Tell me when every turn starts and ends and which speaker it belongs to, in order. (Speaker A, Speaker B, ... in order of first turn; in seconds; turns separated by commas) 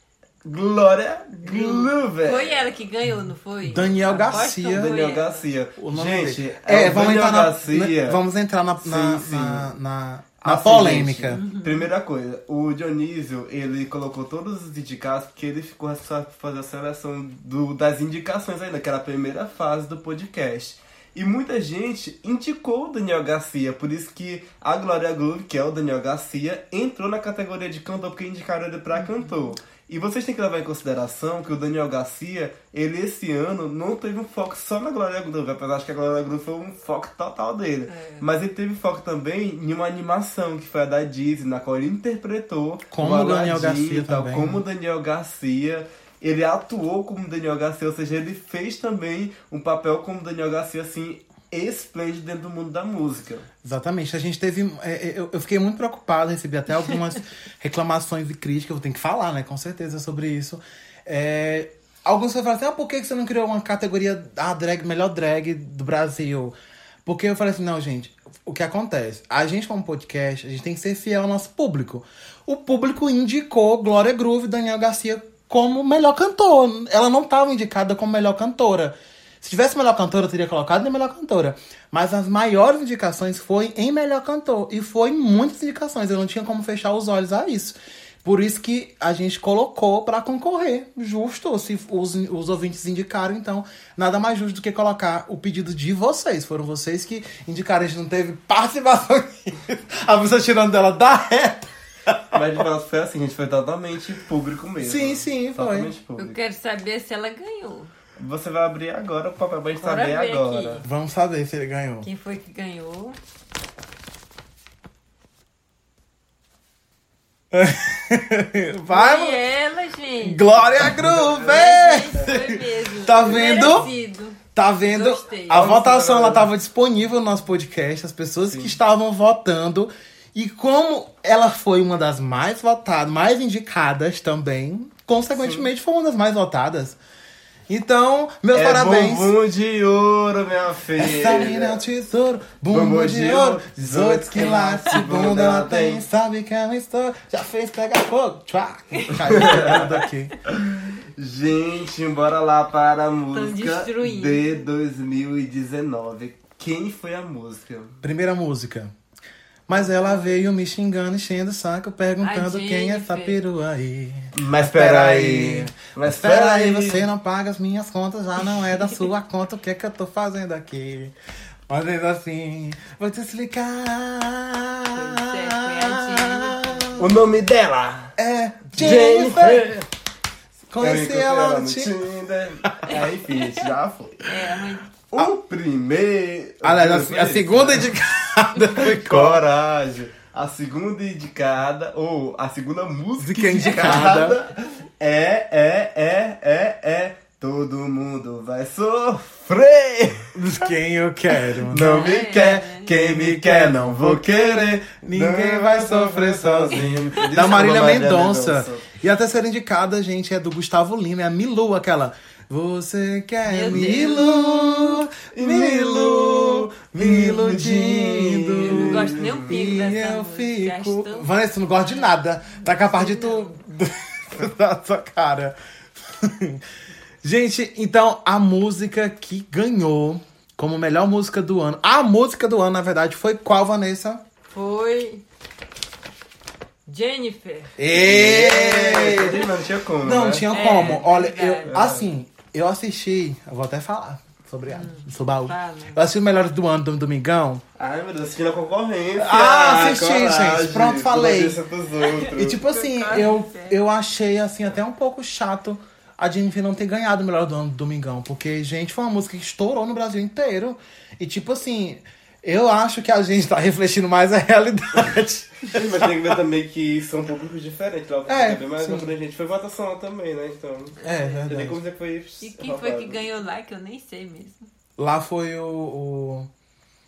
Speaker A: 0.4-2.6, Speaker B: 1.4-5.5, Speaker C: 3.6-4.9, Speaker A: 4.7-8.2, Speaker C: 5.8-11.4, Speaker A: 8.8-9.7, Speaker A: 10.4-53.5, Speaker B: 11.3-11.9, Speaker B: 28.9-29.4, Speaker B: 37.9-38.3, Speaker C: 42.9-44.6, Speaker C: 53.6-102.6, Speaker A: 102.3-106.4, Speaker C: 104.8-105.9, Speaker B: 106.2-107.9, Speaker A: 108.2-110.8, Speaker B: 109.8-110.8, Speaker C: 110.8-112.1, Speaker B: 112.0-113.2, Speaker C: 117.5-119.4, Speaker B: 118.9-125.7, Speaker C: 120.2-123.9, Speaker A: 120.8-121.6, Speaker A: 123.3-123.7, Speaker C: 124.5-137.0, Speaker A: 125.5-126.5, Speaker A: 128.5-128.8, Speaker A: 135.3-135.7, Speaker C: 137.7-139.3, Speaker A: 138.5-141.8, Speaker C: 141.0-150.3, Speaker A: 142.7-146.0, Speaker B: 148.9-149.9, Speaker A: 149.2-149.9, Speaker A: 150.4-157.9, Speaker B: 153.3-154.7, Speaker C: 158.0-158.9, Speaker C: 159.7-171.1, Speaker B: 159.9-160.3, Speaker B: 162.2-163.4, Speaker A: 164.3-167.0, Speaker C: 171.7-177.1, Speaker B: 174.9-177.1, Speaker A: 177.0-178.1, Speaker C: 178.2-179.8, Speaker A: 178.7-179.8, Speaker C: 180.7-181.9, Speaker A: 180.8-184.3, Speaker B: 184.2-184.9, Speaker A: 185.1-187.9, Speaker C: 186.6-189.4, Speaker A: 188.8-200.3, Speaker C: 193.2-194.4, Speaker C: 200.3-225.6, Speaker A: 201.7-208.8, Speaker B: 201.8-202.9, Speaker B: 213.5-214.5, Speaker A: 213.7-219.6, Speaker B: 218.6-221.3, Speaker B: 221.8-222.1, Speaker B: 222.6-223.5, Speaker C: 226.1-226.6, Speaker C: 227.2-234.2, Speaker B: 234.5-235.2, Speaker B: 236.8-237.7, Speaker C: 237.8-239.4, Speaker A: 237.9-241.1, Speaker C: 240.0-247.6, Speaker B: 240.5-241.7, Speaker A: 241.7-242.1, Speaker B: 244.7-246.0, Speaker A: 247.8-252.6, Speaker C: 249.2-251.6, Speaker B: 252.1-253.8, Speaker C: 252.3-266.3, Speaker A: 265.7-273.2, Speaker C: 268.2-269.1, Speaker B: 271.0-271.5, Speaker C: 271.0-271.8, Speaker B: 272.4-274.7, Speaker C: 275.0-276.5